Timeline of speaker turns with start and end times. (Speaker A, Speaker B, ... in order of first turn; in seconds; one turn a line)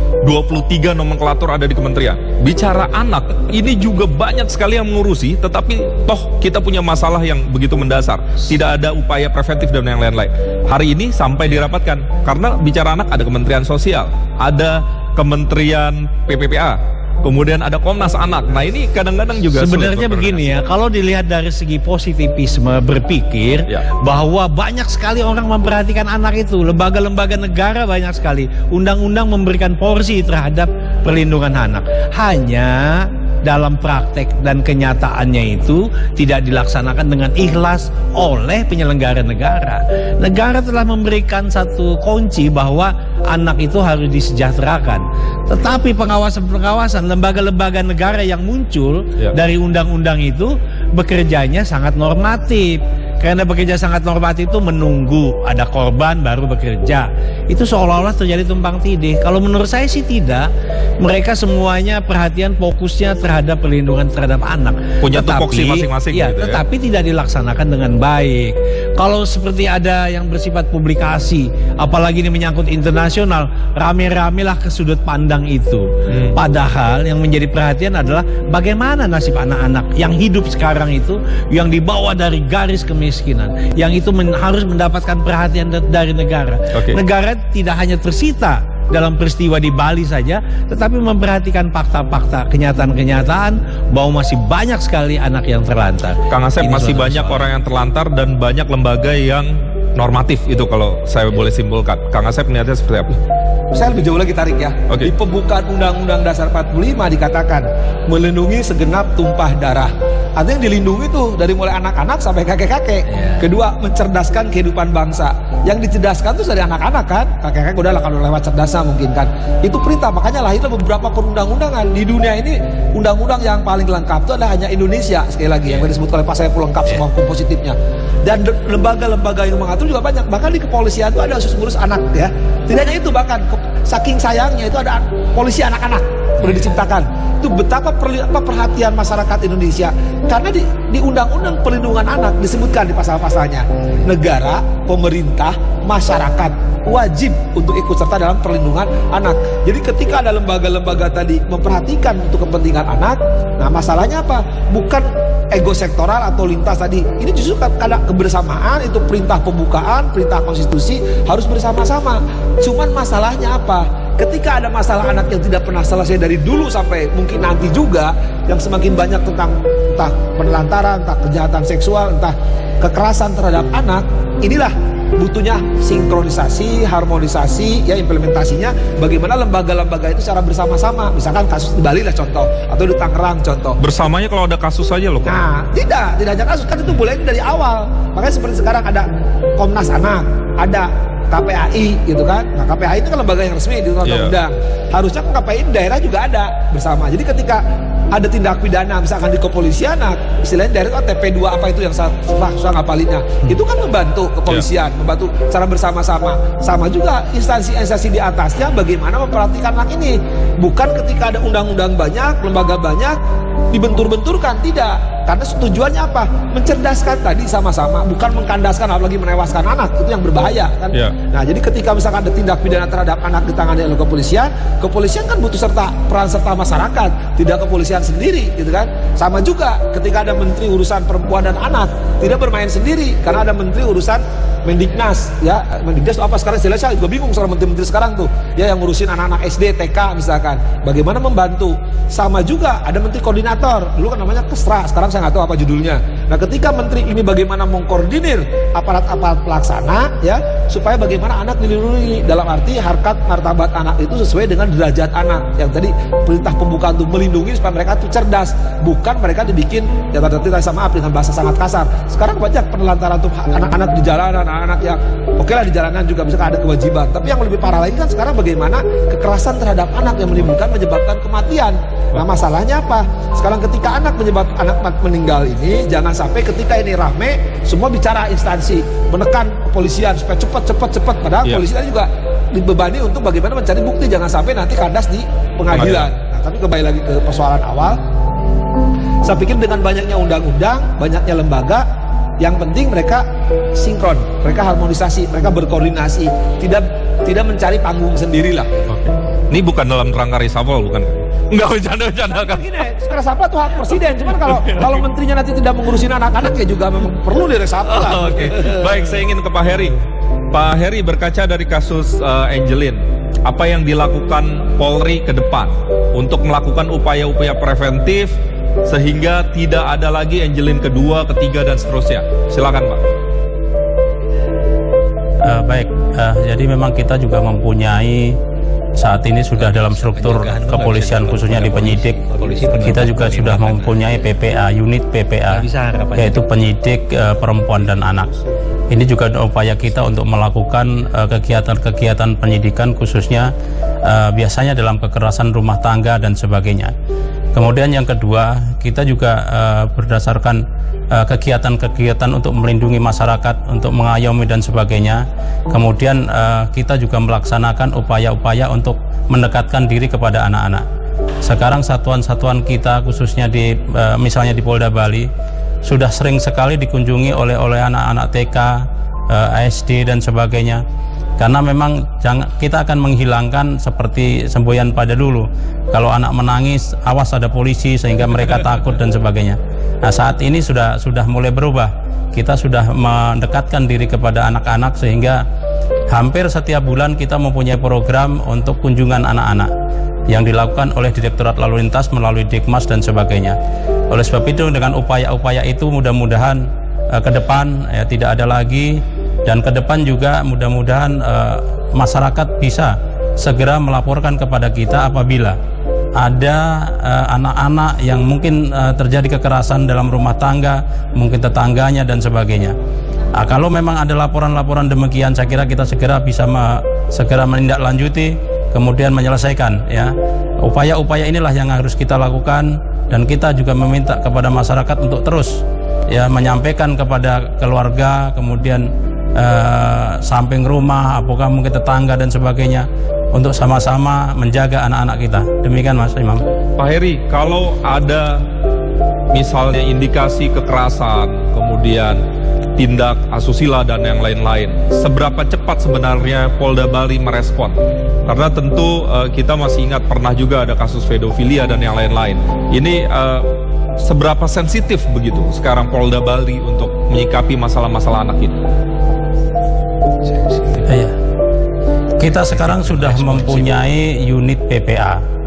Speaker A: 0.2-20.5
Speaker B: 19.5-60.5
Speaker B: 61.0-97.5
Speaker A: 65.0-66.6
Speaker A: 76.1-76.4
Speaker A: 86.7-87.0
Speaker A: 96.3-103.1
Speaker C: 103.7-183.8
Speaker B: 113.1-113.5
Speaker A: 183.8-185.4
Speaker C: 185.3-189.1
Speaker C: 189.6-213.2
Speaker A: 194.1-194.4
Speaker C: 213.7-288.0
Speaker A: 285.7-286.1
Speaker C: 289.2-291.9
Speaker C: 292.4-298.7
Speaker A: 298.9-302.7
Speaker C: 302.3-308.8
Speaker A: 304.6-304.9
Speaker A: 307.9-310.0
Speaker A: 310.5-318.3
Speaker A: 318.9-323.0
Speaker D: 325.4-328.4
Speaker D: 329.0-332.2
Speaker B: 329.6-334.1
Speaker D: 332.8-335.6
Speaker B: 335.5-336.4
Speaker D: 336.2-338.3
Speaker D: 338.9-343.5
Speaker D: 344.0-346.9
Speaker D: 347.6-360.9
Speaker D: 361.4-365.3
Speaker D: 365.9-370.8
Speaker D: 371.4-385.4
Speaker D: 386.1-389.7
Speaker D: 390.3-393.6
Speaker D: 394.1-405.6
Speaker D: 406.2-412.8
Speaker D: 413.4-436.4
Speaker A: 436.8-438.4
Speaker A: 439.3-442.2
Speaker A: 442.8-453.5
Speaker A: 454.0-458.5
Speaker B: 460.3-460.8
Speaker D: 460.9-461.1
Speaker D: 462.2-465.2
Speaker B: 462.7-463.6